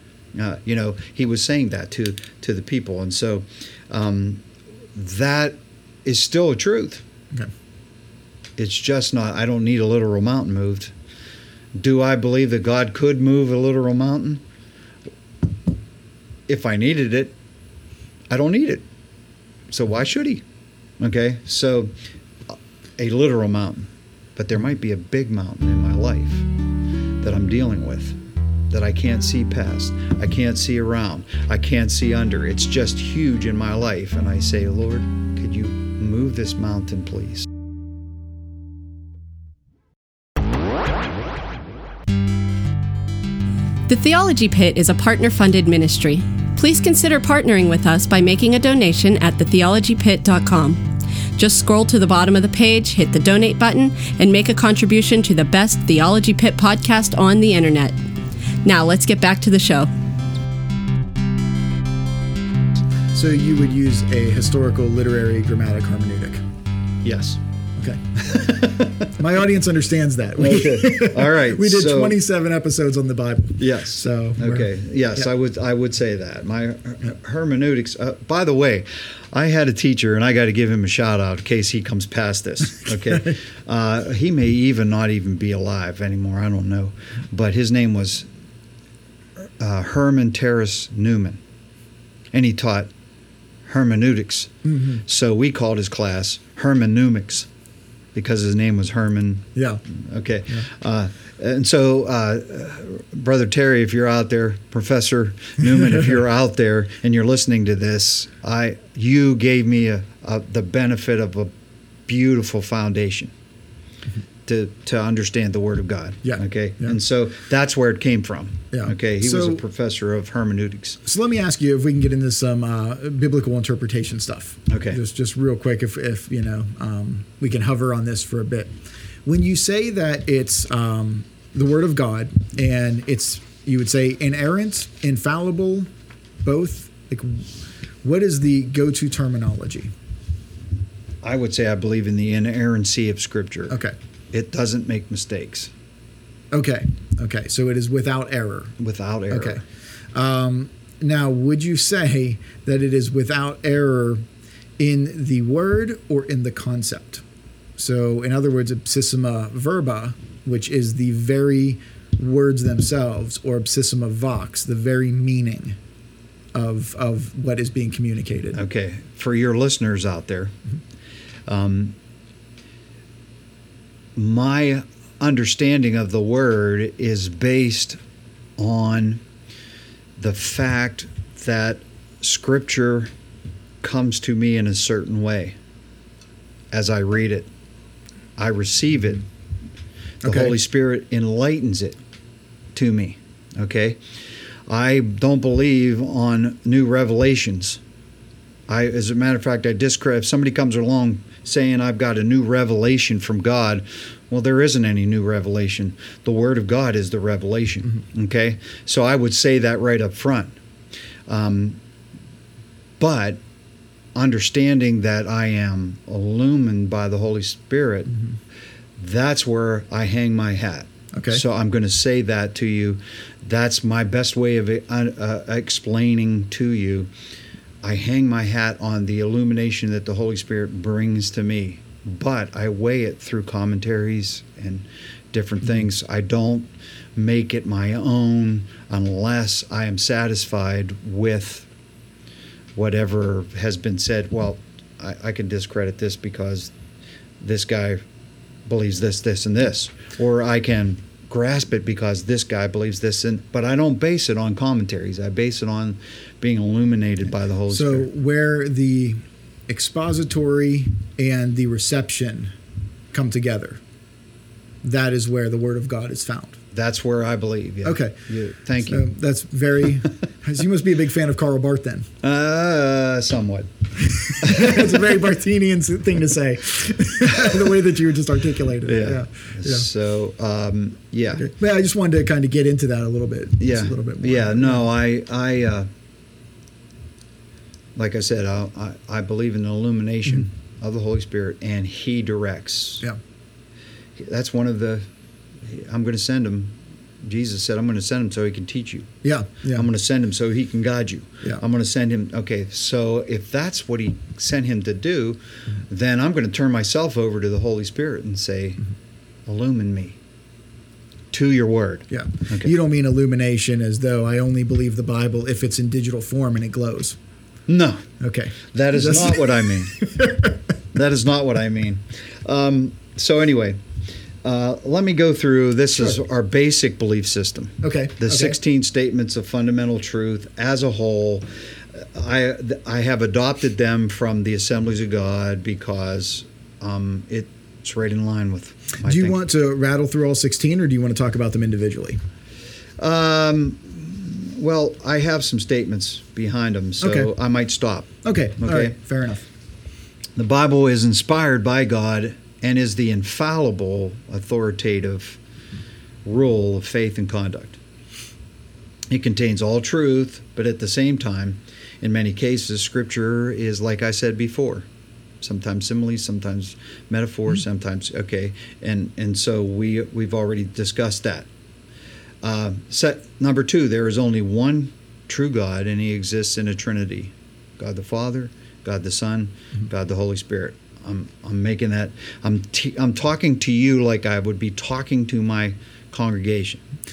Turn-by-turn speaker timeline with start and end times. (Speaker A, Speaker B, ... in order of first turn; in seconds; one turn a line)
Speaker A: 0.3-7.0
Speaker A: 8.6-10.9
Speaker A: 11.8-14.4
Speaker A: 16.5-17.3
Speaker A: 18.3-18.8
Speaker A: 19.7-20.4
Speaker A: 21.0-21.9
Speaker A: 22.5-26.5
Speaker A: 27.2-28.2
Speaker A: 28.7-37.5
Speaker B: 43.9-50.8
Speaker B: 51.4-57.9
Speaker B: 58.6-59.9
Speaker C: 63.1-66.4
Speaker A: 67.0-67.4
Speaker C: 67.8-68.6
Speaker A: 68.2-69.1
Speaker C: 69.1-75.2
Speaker A: 70.4-72.2
Speaker A: 73.6-88.3
Speaker A: 89.4-91.4
Speaker A: 92.3-92.9
Speaker A: 93.7-97.5
Speaker C: 94.6-95.0
Speaker A: 98.1-111.5
Speaker C: 99.5-99.8
Speaker A: 112.1-113.3
Speaker A: 114.5-121.0
Speaker C: 116.2-117.0
Speaker C: 118.7-119.6
Speaker C: 121.0-128.7
Speaker A: 124.7-125.0
Speaker C: 129.2-135.9
Speaker C: 136.4-137.5
Speaker C: 138.0-139.9
Speaker A: 141.2-143.8
Speaker C: 143.7-143.9
Speaker A: 144.3-145.7
Speaker C: 146.5-148.8
Speaker A: 148.8-149.6
Speaker C: 149.3-149.6
Speaker C: 150.1-154.2
Speaker C: 154.8-157.2
Speaker C: 157.8-165.8
Speaker C: 166.5-168.6
Speaker A: 168.5-170.5
Speaker A: 171.5-171.9
Speaker A: 174.1-178.0
Speaker A: 178.6-179.2
Speaker A: 180.2-183.1
Speaker A: 183.8-185.6
Speaker A: 186.7-187.5
Speaker A: 188.4-189.2
Speaker C: 190.2-190.5
Speaker A: 190.2-192.0
Speaker A: 192.7-194.0
Speaker A: 194.7-197.8
Speaker A: 198.7-210.6
Speaker A: 211.3-211.8
Speaker A: 213.0-213.4
Speaker A: 214.1-218.1
Speaker C: 218.1-218.4
Speaker A: 219.0-227.1
Speaker C: 221.1-221.4
Speaker A: 227.8-241.7
Speaker A: 242.8-246.7
Speaker A: 247.4-248.0
Speaker A: 248.7-258.1
Speaker C: 257.7-262.5
Speaker C: 263.1-263.8
Speaker C: 264.8-266.6
Speaker A: 266.7-269.1
Speaker C: 267.8-268.1
Speaker C: 268.8-272.1
Speaker A: 272.2-273.7
Speaker C: 274.2-279.9
Speaker A: 274.4-275.1
Speaker A: 277.3-277.7
Speaker A: 278.8-281.5
Speaker C: 281.4-284.9
Speaker A: 283.6-285.9
Speaker A: 287.9-293.0
Speaker A: 294.1-295.1
Speaker A: 295.6-299.1
Speaker C: 299.2-299.9
Speaker A: 299.7-308.8
Speaker A: 309.4-310.2
Speaker A: 311.3-312.7
Speaker C: 312.1-317.2
Speaker A: 317.7-318.0
Speaker C: 318.2-320.6
Speaker A: 318.7-319.9
Speaker A: 320.9-323.8
Speaker A: 324.4-339.4
Speaker C: 327.8-328.6
Speaker C: 339.0-342.2
Speaker A: 343.0-348.9
Speaker C: 347.0-347.3
Speaker C: 348.2-349.4
Speaker A: 350.4-355.4
Speaker A: 356.2-357.8
Speaker A: 359.1-364.9
Speaker A: 365.4-371.5
Speaker A: 372.4-386.8